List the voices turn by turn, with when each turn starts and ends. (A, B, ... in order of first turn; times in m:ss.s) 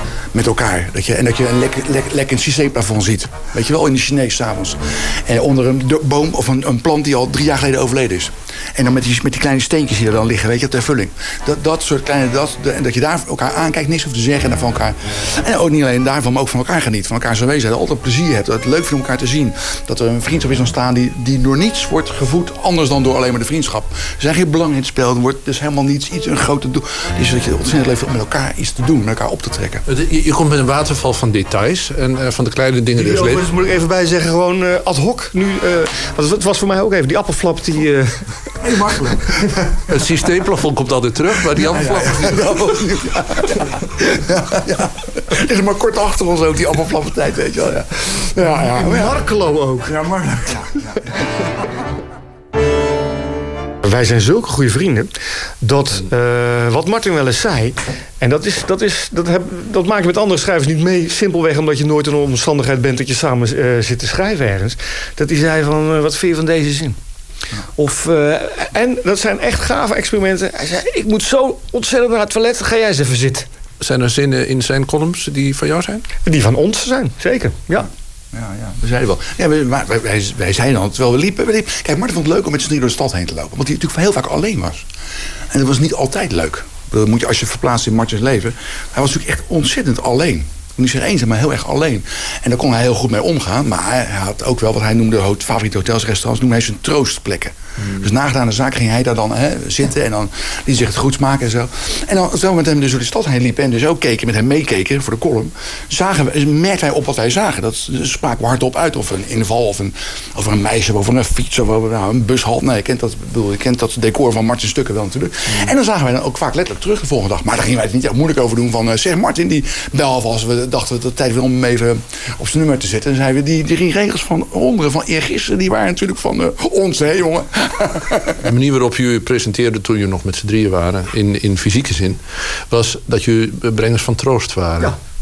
0:00.3-0:29.8 A
0:29.8-0:33.5 B
0:32.9-0:38.2 C
0:38.6-0:39.5 A
0:39.9-0:42.4 B
0:41.6-0:43.6 A
0:41.6-0:42.0 C
0:44.2-0:49.3 A
0:48.4-0:50.0 C
0:49.8-0:50.9 A
0:53.8-1:07.0 C
1:07.8-1:13.5 C
1:13.8-1:16.0 B
1:16.2-1:17.9 C
1:18.3-1:24.8 A
1:25.5-2:08.4 A
2:08.4-2:14.9 B